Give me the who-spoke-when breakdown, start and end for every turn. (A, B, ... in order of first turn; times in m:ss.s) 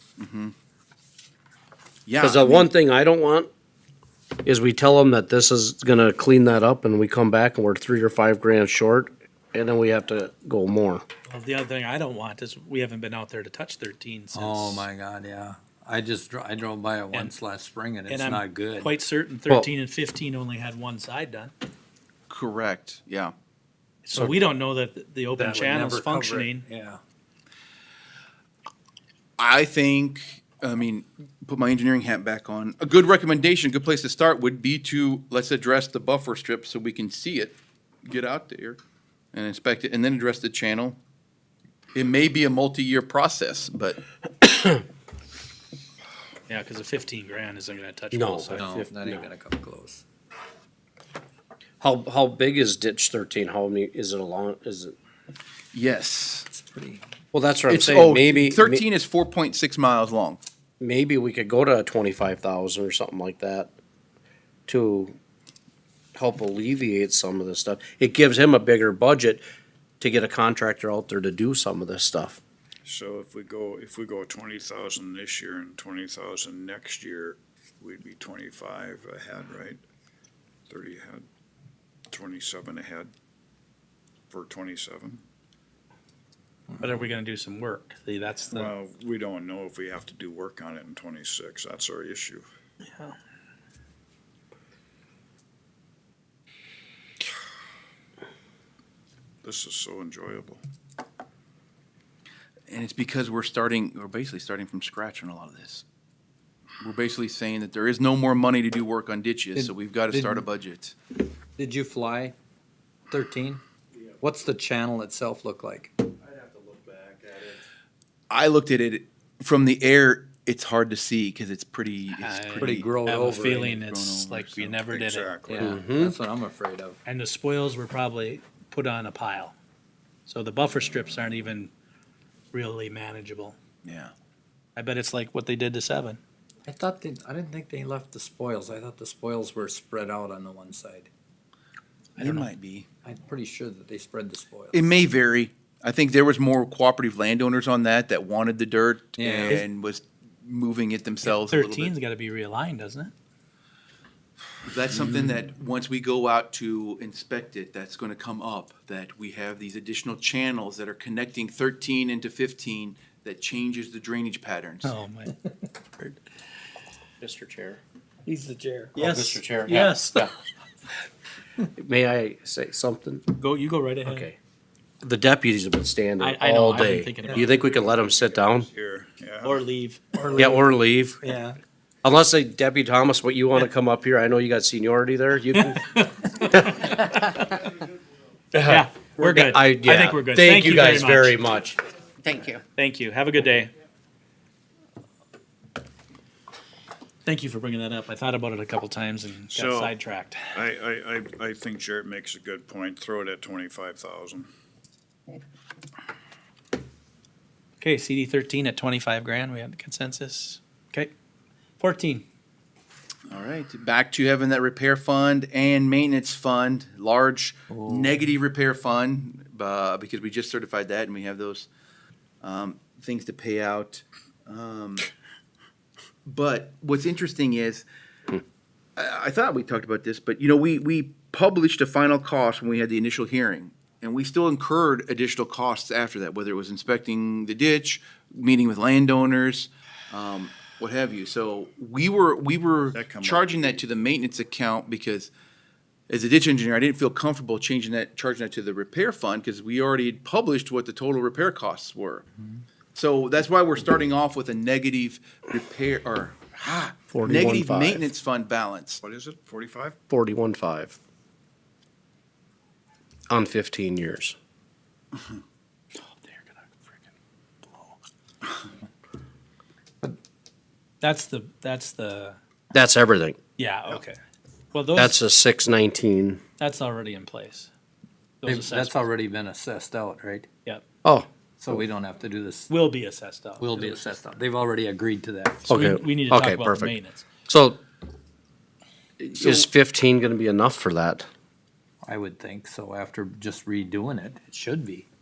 0:00.2-0:00.6 A
0:02.1-0:02.7 A
0:02.2-0:03.5 B
0:04.4-0:11.0 B
0:11.3-0:14.9 C
0:14.3-0:18.9 D
0:18.1-0:21.5 C
0:22.3-0:23.3 A
0:24.0-0:26.6 C
0:25.3-0:27.0 D
0:29.4-0:38.8 A
0:39.3-0:41.0 A
0:41.9-0:44.0 A
0:44.4-0:44.8 B
0:46.5-0:48.8 C
0:48.1-0:49.3 B
0:48.5-0:50.0 D
0:51.8-0:55.0 B
0:55.7-0:56.5 A
0:56.5-0:57.0 D
0:57.3-0:58.8 B
0:57.7-1:00.4 A
1:00.8-1:03.7 B
1:04.7-1:05.2 B
1:06.2-1:09.4 B
1:10.0-1:12.4 B
1:12.9-1:19.8 E
1:20.7-1:21.2 E
1:22.1-1:23.1 E
1:24.3-1:25.2 E
1:26.8-1:28.7 C
1:28.5-1:32.5 E
1:32.9-1:33.2 C
1:39.4-1:40.6 E
1:42.7-1:45.9 A
1:46.8-1:51.0 A
1:49.6-1:50.5 D
1:51.6-1:52.4 D
1:53.1-1:53.6 D
1:54.2-1:56.1 D
1:56.4-1:57.5 E
1:58.3-2:02.9 A
2:02.1-2:05.7 C
2:02.6-2:03.7 D
2:03.6-2:04.8 A
2:04.8-2:05.8 E
2:05.5-2:07.0 D
2:05.5-2:06.2 B
2:07.1-2:09.6 C
2:10.3-2:11.7 C
2:12.5-2:13.6 C
2:13.8-2:14.1 A
2:14.8-2:16.2 C
2:16.7-2:21.1 D
2:22.2-2:22.9 A
2:22.2-2:22.5 C
2:23.0-2:24.9 D
2:24.7-2:31.9 A
2:29.2-2:29.6 D
2:31.2-2:33.1 C
2:34.6-2:44.9 A
2:44.8-2:46.2 C
2:47.2-2:47.8 B
2:48.3-2:48.9 D
2:49.0-2:50.3 C
2:49.0-2:50.3 B
2:51.6-2:53.2 B
2:53.3-2:54.3 C
2:54.0-2:54.4 B
2:55.0-2:58.7 B
2:56.2-2:57.6 C
2:57.5-2:59.6 E
2:59.4-3:00.6 C
3:00.4-3:01.2 B
3:01.2-3:01.6 C
3:02.0-3:05.8 B
3:05.8-3:07.6 C
3:08.5-3:11.8 B
3:08.6-3:11.4 C
3:12.8-3:13.7 C
3:17.2-3:20.4 C
3:19.5-3:20.0 E
3:20.5-3:24.5 E
3:27.8-3:31.1 C
3:31.8-3:32.3 C
3:33.3-3:41.7 A
3:37.7-3:38.2 D
3:42.4-3:45.1 A
3:46.2-3:47.9 A
3:49.0-4:05.3 A
4:02.9-4:03.9 E
4:06.1-4:12.3 A
4:12.9-4:19.0 A
4:17.1-4:18.1 B
4:19.0-4:20.0 E
4:20.1-4:21.0 B
4:23.3-4:24.4 B
4:26.0-4:27.0 C
4:27.6-4:28.0 C
4:31.0-4:32.4 C
4:32.7-4:33.4 B
4:33.6-4:34.2 C
4:34.7-4:35.2 C
4:35.0-4:36.4 B
4:36.6-4:37.7 C
4:38.4-4:39.1 C
4:38.4-4:40.5 D
4:41.0-4:41.3 B
4:41.6-4:42.8 D
4:42.7-4:44.2 C
4:43.6-4:45.7 D
4:45.7-4:47.0 B
4:45.7-4:47.3 C
4:47.5-4:47.8 B
4:49.3-4:51.3 B
4:52.0-4:55.1 D